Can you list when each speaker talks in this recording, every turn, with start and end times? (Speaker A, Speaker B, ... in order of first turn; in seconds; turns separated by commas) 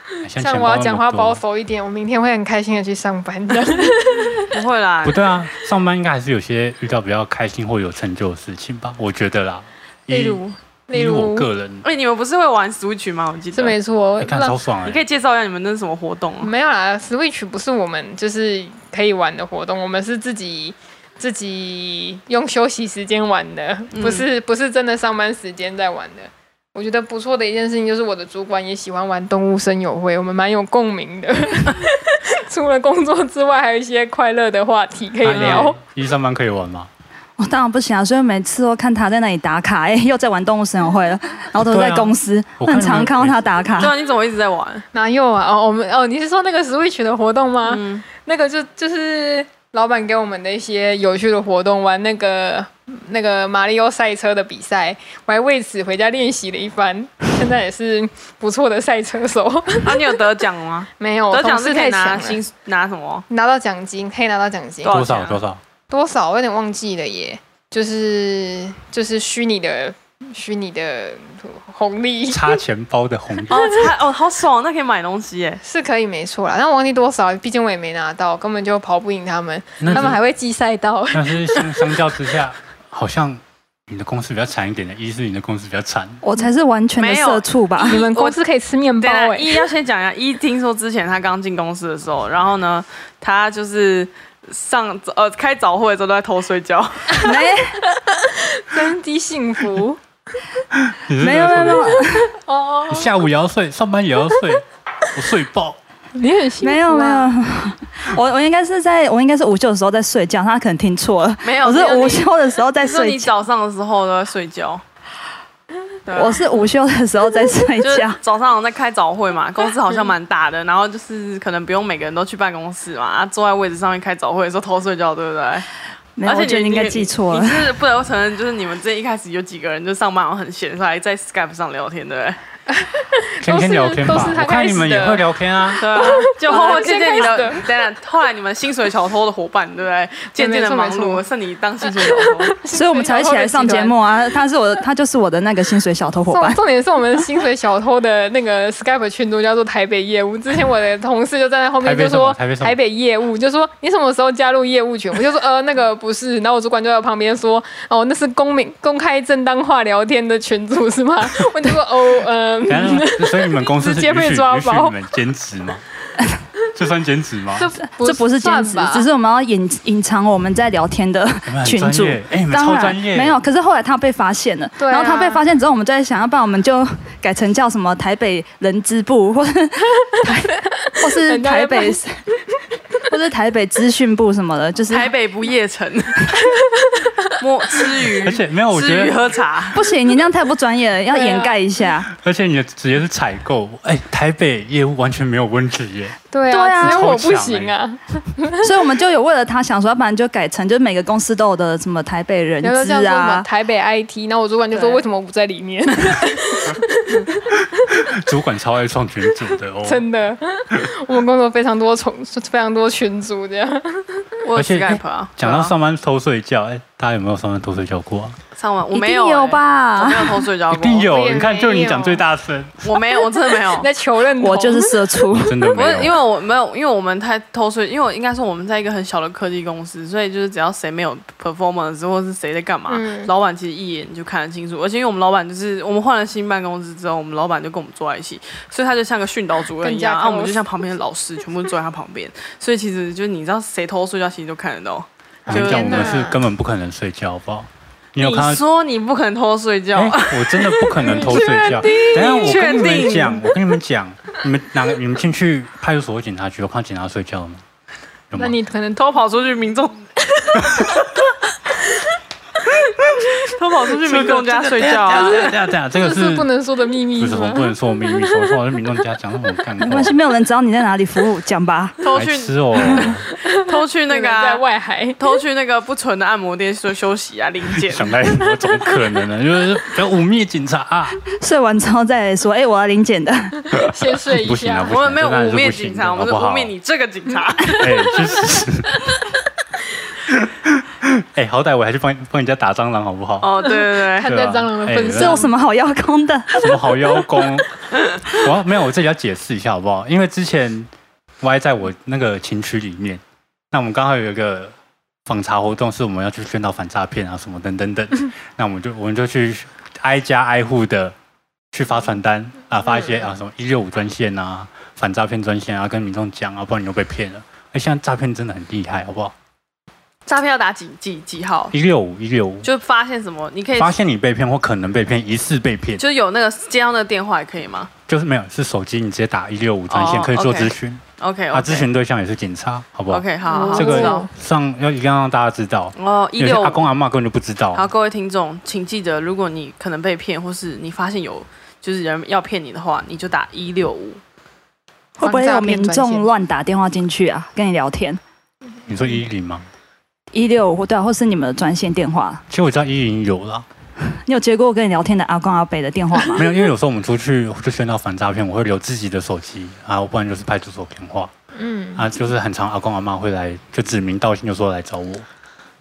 Speaker A: 0.2-1.4, Speaker B: 0.4-4.5, Speaker C: 4.4-5.3, Speaker A: 5.0-11.8, Speaker B: 10.1-11.5, Speaker C: 11.8-13.8, Speaker B: 13.5-14.6, Speaker A: 14.2-15.0, Speaker C: 14.8-16.5, Speaker B: 16.4-35.8, Speaker C: 23.9-24.3, Speaker A: 35.2-36.9, Speaker D: 37.4-43.9, Speaker A: 41.6-43.4, Speaker C: 43.8-44.9, Speaker B: 44.9-60.2, Speaker C: 47.6-48.0, Speaker C: 59.8-63.2, Speaker B: 61.0-62.4, Speaker B: 63.3-64.9, Speaker C: 64.8-65.4, Speaker A: 64.9-65.6, Speaker B: 65.9-72.6, Speaker A: 72.3-73.8, Speaker C: 73.5-75.6, Speaker B: 75.6-81.7, Speaker A: 79.8-80.2, Speaker A: 81.1-86.2, Speaker D: 86.2-88.0, Speaker C: 87.0-88.4, Speaker B: 87.8-89.6, Speaker C: 89.0-97.3, Speaker D: 97.2-97.8, Speaker B: 97.9-100.0, Speaker A: 100.7-102.1, Speaker D: 101.2-102.3, Speaker B: 102.3-103.2, Speaker A: 102.9-105.8, Speaker B: 106.1-107.3, Speaker D: 106.6-113.3, Speaker C: 111.4-114.8, Speaker C: 116.1-116.4, Speaker D: 116.1-118.2, Speaker C: 117.8-125.7, Speaker D: 126.2-127.7, Speaker C: 126.2-132.4, Speaker B: 132.7-137.7, Speaker A: 133.4-136.2, Speaker C: 135.8-142.6, Speaker B: 140.4-141.2, Speaker B: 142.0-144.0, Speaker D: 142.7-146.6, Speaker B: 146.3-165.0, Speaker A: 151.8-152.8, Speaker A: 162.7-165.8, Speaker A: 166.8-167.7, Speaker B: 167.5-169.1, Speaker D: 167.8-182.1, Speaker A: 171.5-173.4, Speaker B: 174.8-175.4, Speaker B: 181.2-182.0, Speaker D: 183.1-185.1, Speaker C: 184.9-186.3, Speaker B: 186.4-187.1, Speaker C: 187.4-189.8, Speaker A: 188.2-189.2, Speaker D: 189.7-192.1, Speaker B: 191.1-191.6, Speaker A: 192.1-196.2, Speaker B: 196.3-198.7, Speaker D: 196.5-197.2, Speaker A: 196.8-197.7, Speaker D: 198.6-203.5, Speaker B: 202.6-208.1, Speaker D: 204.7-205.0, Speaker A: 208.1-210.0, Speaker B: 209.8-214.3, Speaker C: 214.4-215.8, Speaker A: 214.6-218.4, Speaker C: 218.6-221.1, Speaker D: 218.9-220.4, Speaker A: 220.7-222.8, Speaker B: 221.1-222.2, Speaker C: 222.8-223.9, Speaker B: 223.6-225.1, Speaker D: 224.4-225.6, Speaker A: 225.4-226.2, Speaker C: 225.7-246.3, Speaker B: 232.9-233.3, Speaker B: 239.8-240.6, Speaker A: 245.5-248.6, Speaker B: 245.5-246.4, Speaker C: 248.2-253.5, Speaker A: 249.9-257.6, Speaker B: 251.0-252.6, Speaker A: 258.3-258.6, Speaker B: 258.4-259.0, Speaker C: 258.9-260.1, Speaker B: 260.6-260.9, Speaker C: 263.4-265.6, Speaker A: 264.0-266.5, Speaker B: 265.3-268.6, Speaker A: 267.2-270.1, Speaker D: 269.8-272.0, Speaker C: 272.0-274.6, Speaker A: 272.1-273.3, Speaker B: 273.4-275.2, Speaker C: 275.2-278.2, Speaker A: 277.8-281.2, Speaker D: 281.4-283.7, Speaker B: 283.8-285.0, Speaker A: 284.3-286.7, Speaker C: 284.9-288.2, Speaker B: 287.6-288.1, Speaker A: 287.8-289.0, Speaker A: 290.3-293.6, Speaker C: 293.4-294.3, Speaker B: 293.6-295.5, Speaker A: 294.2-295.5, Speaker D: 295.0-297.0, Speaker A: 296.5-297.7, Speaker A: 298.3-300.9, Speaker A: 301.4-303.2, Speaker A: 303.7-304.7, Speaker A: 305.3-311.1, Speaker A: 311.7-319.3, Speaker C: 320.3-321.7, Speaker A: 321.7-322.7, Speaker C: 322.6-323.9, Speaker A: 323.8-326.0, Speaker C: 326.0-327.9, Speaker A: 328.1-337.9, Speaker C: 329.9-331.9, Speaker C: 333.1-334.3, Speaker B: 333.5-334.3, Speaker C: 336.0-336.9, Speaker C: 337.7-344.2, Speaker D: 345.2-348.2, Speaker B: 345.2-346.3, Speaker A: 348.9-349.7, Speaker D: 350.3-352.4, Speaker A: 352.5-353.7, Speaker D: 354.0-356.5, Speaker A: 356.3-361.3, Speaker B: 361.5-362.1, Speaker A: 362.0-365.3